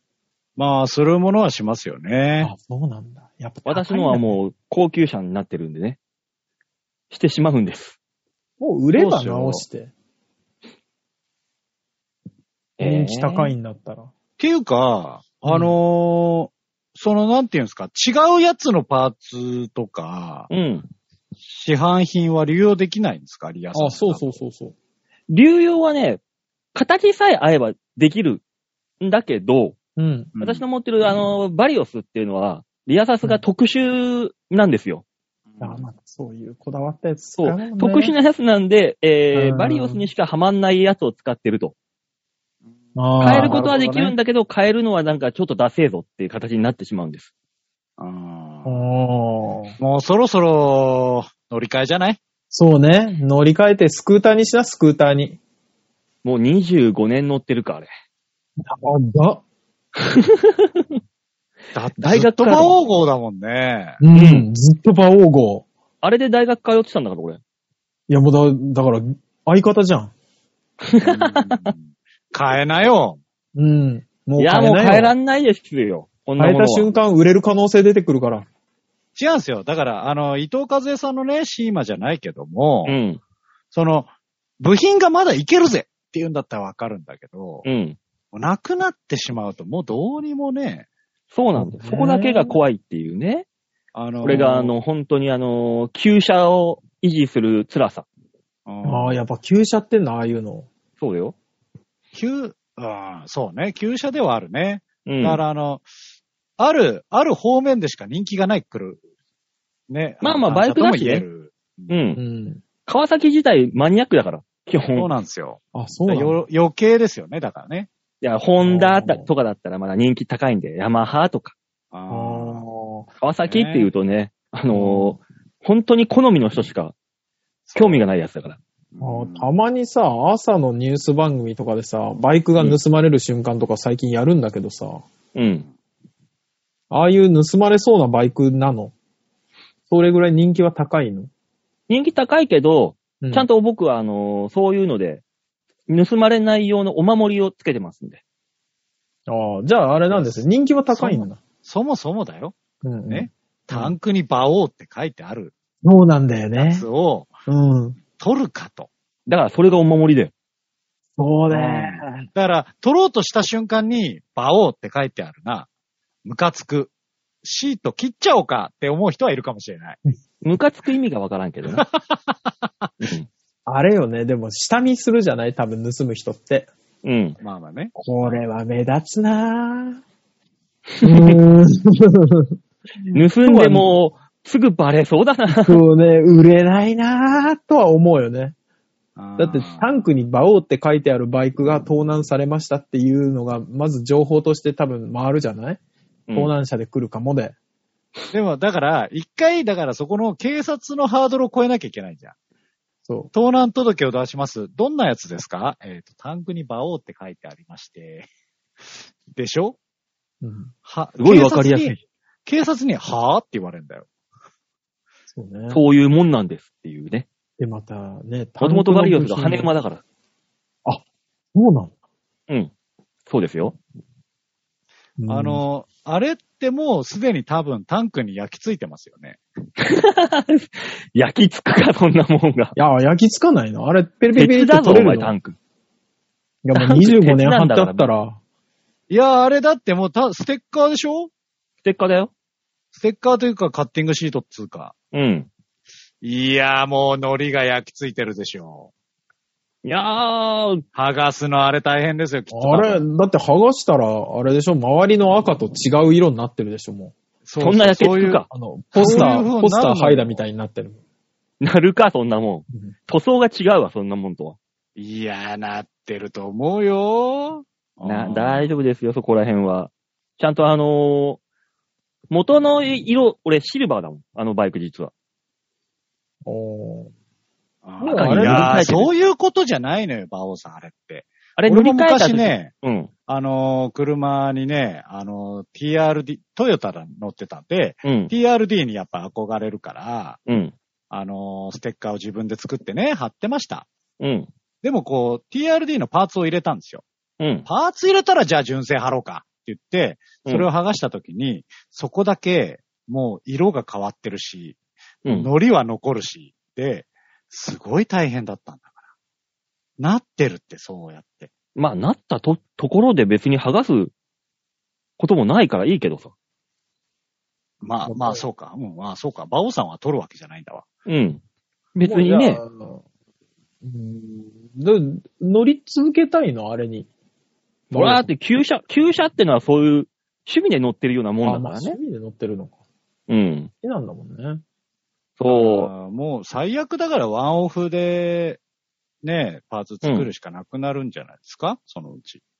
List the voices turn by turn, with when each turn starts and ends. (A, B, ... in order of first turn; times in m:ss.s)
0:00.6-0:02.5 A
0:02.4-0:04.4 B
0:03.6-0:06.0 C
0:07.1-0:08.0 C
0:08.6-0:09.9 B
0:08.9-0:09.6 A
0:12.8-0:13.5 C
0:12.8-0:14.1 B
0:14.4-0:20.5 A
0:15.5-0:15.7 B
0:20.5-0:20.9 C
0:21.4-0:24.4 A
0:23.7-0:24.7 B
0:25.3-0:26.2 C
0:26.7-0:28.4 C
0:29.0-0:29.8 C
0:30.0-0:30.3 B
0:30.4-0:30.6 A
0:30.4-0:35.0 C
0:35.5-0:35.8 A
0:35.6-0:38.1 B
0:37.4-0:41.7 C
0:39.3-0:40.1 B
0:42.9-0:44.1 B
0:43.2-0:47.3 C
0:43.3-0:43.8 A
0:48.0-0:48.8 A
0:48.6-0:49.8 B
0:49.8-0:52.2 A
0:52.5-0:55.4 B
0:56.2-0:57.9 C
0:58.6-0:59.4 B
1:00.0-1:00.8 C
1:01.7-1:04.0 A
1:02.0-1:02.8 C
1:04.0-1:05.6 B
1:04.1-1:04.5 C
1:06.0-1:07.4 C
1:08.1-1:10.1 B
1:10.8-1:11.6 C
1:11.0-1:13.2 A
1:13.5-1:15.1 B
1:14.4-1:16.9 C
1:16.4-1:18.4 B
1:19.2-1:23.0 A
1:22.8-1:23.2 C
1:23.7-1:27.6 A
1:27.6-1:28.0 C
1:28.3-1:30.9 A
1:31.3-1:33.4 C
1:31.6-1:32.6 B
1:33.9-1:34.7 A
1:34.2-1:34.7 B
1:34.2-1:38.0 C
1:38.6-1:39.2 A
1:38.8-1:40.7 B
1:41.0-1:41.3 C
1:42.1-1:45.8 A
1:45.0-1:45.4 C
1:46.6-1:49.0 A
1:49.9-1:52.0 A
1:50.2-1:51.2 C
1:51.9-1:52.2 C
1:52.2-1:52.6 B
1:52.8-1:55.1 C
1:55.0-1:57.9 A
1:55.7-1:56.4 B
1:58.2-2:01.5 C
1:58.6-1:59.3 B
2:01.9-2:02.6 A
2:02.1-2:03.1 B
2:03.2-2:06.9 C
2:03.4-2:03.9 A
2:04.7-2:05.2 B
2:07.7-2:08.0 A
2:07.8-2:08.6 C
2:08.9-2:09.5 A
2:09.0-2:15.0 B
2:15.3-2:15.6 C
2:16.9-2:18.9 B
2:19.9-2:21.3 B
2:21.9-2:25.2 C
2:23.2-2:23.5 B
2:25.9-2:28.2 C
2:29.3-2:31.4 B
2:30.1-2:32.5 A
2:32.8-2:33.9 B
2:33.1-2:35.5 A
2:35.8-2:36.8 B
2:36.6-2:37.4 A
2:37.5-2:38.0 B
2:38.2-2:38.9 A
2:39.3-2:40.3 C
2:41.2-2:42.2 B
2:41.5-2:45.7 A
2:46.2-2:46.9 A
2:47.4-2:50.0 A
2:50.4-2:51.8 C
2:53.0-2:53.3 C
2:53.6-2:56.7 B
2:57.0-2:57.4 C
2:57.4-2:58.4 A
2:58.0-3:00.0 B
3:01.0-3:03.9 B
3:03.1-3:05.8 C
3:05.5-3:08.5 B
3:09.2-3:10.0 A
3:09.4-3:15.8 B
3:16.3-3:16.5 C
3:16.3-3:17.5 B
3:18.3-3:22.3 A
3:23.1-3:23.3 B
3:23.3-3:28.3 A
3:29.3-3:29.8 A
3:30.4-3:30.7 B
3:30.8-3:34.1 A
3:31.2-3:32.0 C
3:35.3-3:35.8 B
3:35.7-3:37.2 C
3:37.6-3:39.7 B
3:38.6-3:40.0 C
3:40.8-3:41.9 B
3:43.3-3:43.8 C
3:45.2-3:45.6 B
3:45.3-3:49.4 A
3:49.8-3:52.8 C
3:52.8-3:55.3 B
3:54.3-3:55.6 C
3:56.6-3:58.4 B
3:56.8-3:58.1 C
3:59.1-4:01.3 A
4:01.8-4:02.3 C
4:02.9-4:04.9 A
4:05.1-4:05.5 C
4:06.2-4:08.9 A
4:09.8-4:10.8 C
4:10.9-4:13.0 A
4:12.5-4:17.1 B
4:17.4-4:20.4 A
4:17.6-4:18.5 C
4:18.5-4:21.0 B
4:21.6-4:24.6 C
4:25.0-4:28.7 A
4:28.0-4:31.4 C
4:32.3-4:35.1 C
4:36.4-4:37.1 B
4:37.8-4:42.7 A
4:38.0-4:39.1 B
4:38.1-4:39.1 C
4:41.6-4:43.1 C
4:43.3-4:50.4 A
4:48.0-4:48.3 C
4:50.5-4:50.8 C
4:51.1-4:53.9 A
4:54.2-4:54.5 C
4:54.8-4:57.0 A
4:57.4-4:57.6 C
4:57.6-5:04.8 A
5:05.3-5:08.9 A
5:10.0-5:11.5 A
5:11.8-5:14.1 C
5:15.2-5:16.3 C
5:17.8-5:20.8 A
5:18.1-5:18.4 B
5:21.1-5:21.4 C
5:21.9-5:22.6 C
5:22.0-5:23.0 B
5:23.8-5:27.1 B
5:27.9-5:32.0 C
5:27.9-5:28.3 B
5:31.4-5:32.8 B
5:33.3-5:33.7 C
5:33.8-5:34.6 B
5:35.4-5:35.9 C
5:35.4-5:38.6 A
5:39.2-5:42.4 A
5:40.0-5:40.3 C